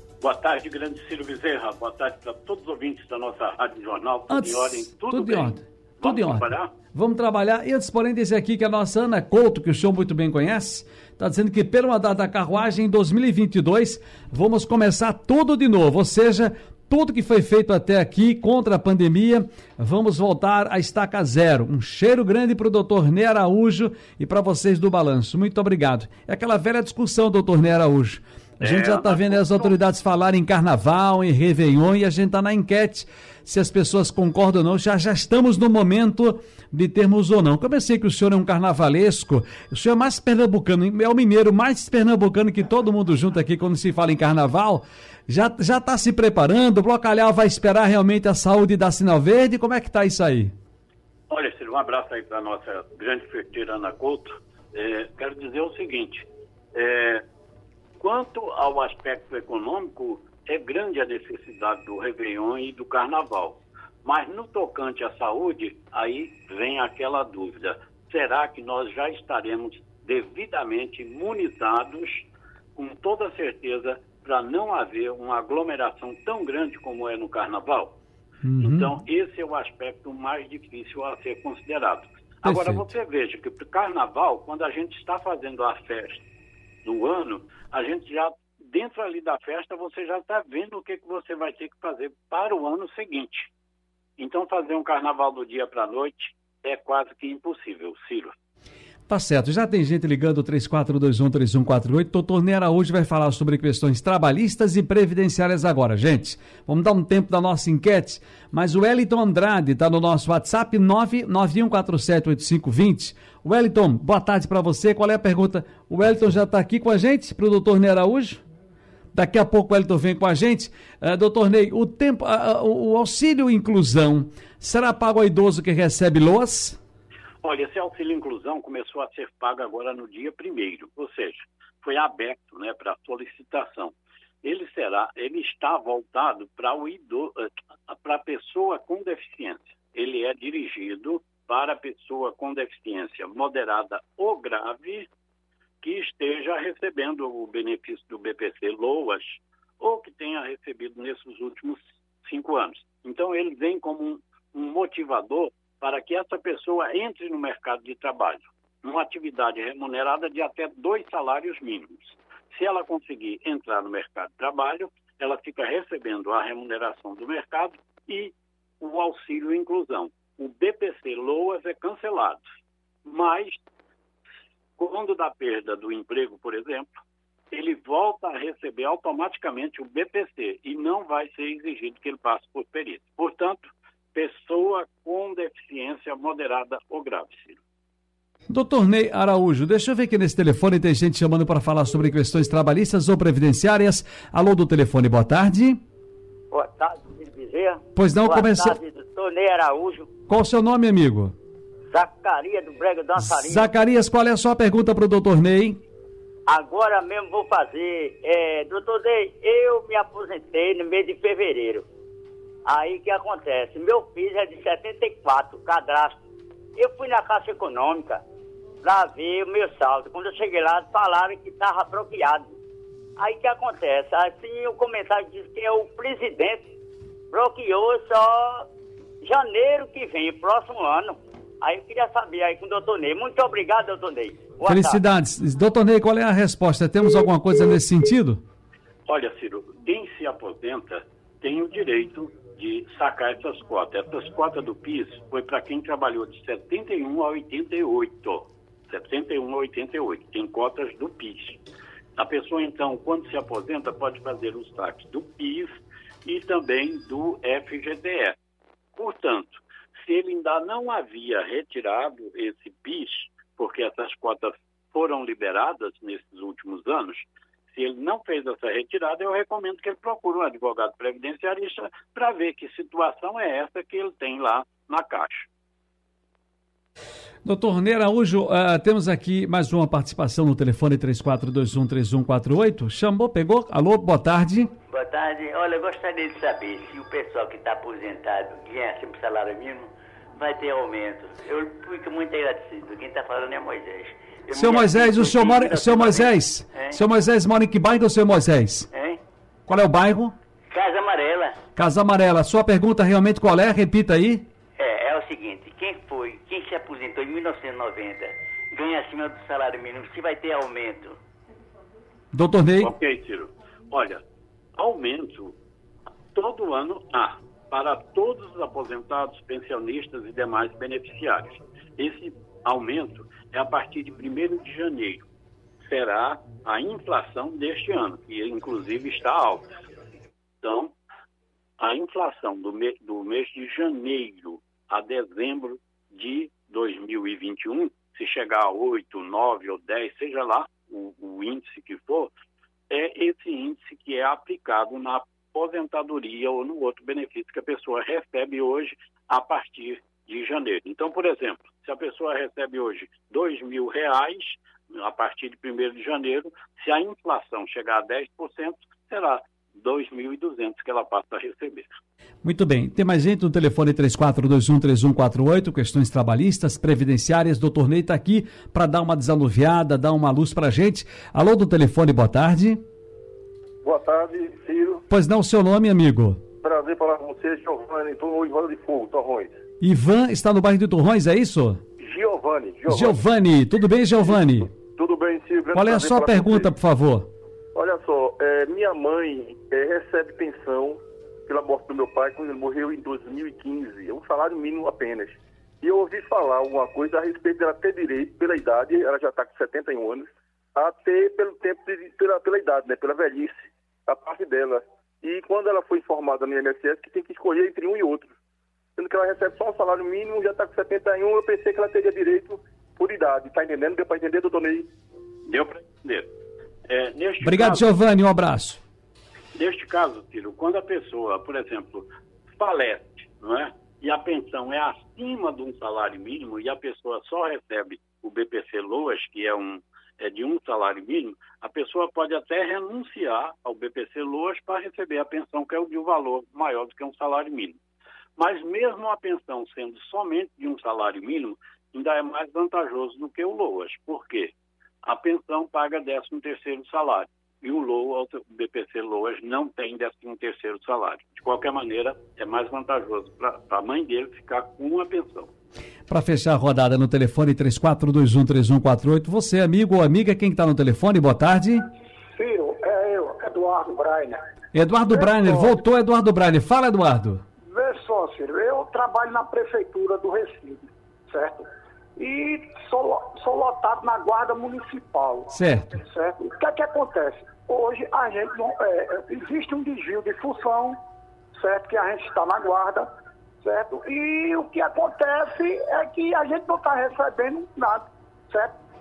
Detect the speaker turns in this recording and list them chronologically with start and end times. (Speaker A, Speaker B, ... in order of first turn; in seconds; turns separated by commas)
Speaker A: 0.2-6.7, Speaker B: 4.3-50.5, Speaker A: 28.6-29.7, Speaker A: 51.3-57.2, Speaker A: 58.0-78.0, Speaker B: 78.5-78.9, Speaker A: 78.6-86.3, Speaker B: 82.4-82.9, Speaker A: 86.8-93.5, Speaker A: 94.2-98.3, Speaker B: 99.1-118.4, Speaker B: 119.1-126.8, Speaker A: 127.4-145.1, Speaker A: 145.8-172.4, Speaker A: 173.0-173.6, Speaker A: 174.8-176.9, Speaker A: 177.5-187.6, Speaker B: 188.5-195.8, Speaker C: 196.5-200.1, Speaker B: 197.9-198.8, Speaker B: 200.3-201.3, Speaker C: 201.9-203.7, Speaker B: 203.2-205.8, Speaker C: 206.5-211.8, Speaker C: 212.7-216.2, Speaker C: 216.8-218.2, Speaker C: 218.8-222.5, Speaker C: 223.2-226.6, Speaker C: 227.3-228.7, Speaker C: 229.2-235.0, Speaker B: 234.6-238.4, Speaker A: 239.1-251.6, Speaker A: 252.2-255.7, Speaker A: 256.2-258.4, Speaker A: 258.9-275.5, Speaker B: 277.4-284.7, Speaker D: 284.9-297.0, Speaker B: 294.5-298.9, Speaker D: 298.9-299.2, Speaker B: 299.7-300.3, Speaker D: 300.7-301.6, Speaker B: 301.8-304.5, Speaker D: 304.8-311.2, Speaker B: 312.3-312.9, Speaker A: 312.8-314.2, Speaker A: 314.8-315.6, Speaker A: 316.4-325.3, Speaker A: 325.8-329.7, Speaker A: 330.6-330.9, Speaker A: 331.8-342.3, Speaker A: 342.9-361.9, Speaker B: 362.4-372.8, Speaker E: 373.8-375.0, Speaker B: 375.1-376.4, Speaker E: 376.6-379.5, Speaker B: 379.8-381.8, Speaker E: 382.0-383.2, Speaker B: 382.9-384.7, Speaker E: 384.2-386.7, Speaker B: 385.7-387.3, Speaker E: 387.8-408.3, Speaker E: 409.0-414.9, Speaker A: 415.5-416.3, Speaker A: 416.9-417.9, Speaker B: 417.4-418.8, Speaker A: 419.5-437.8, Speaker A: 438.4-444.5, Speaker A: 445.0-455.5, Speaker B: 456.1-461.9, Speaker F: 462.4-464.4, Speaker B: 464.7-467.4, Speaker F: 465.1-465.8, Speaker F: 467.7-475.5, Speaker B: 475.5-475.9, Speaker F: 476.0-480.9, Speaker F: 481.6-483.1, Speaker F: 483.6-488.7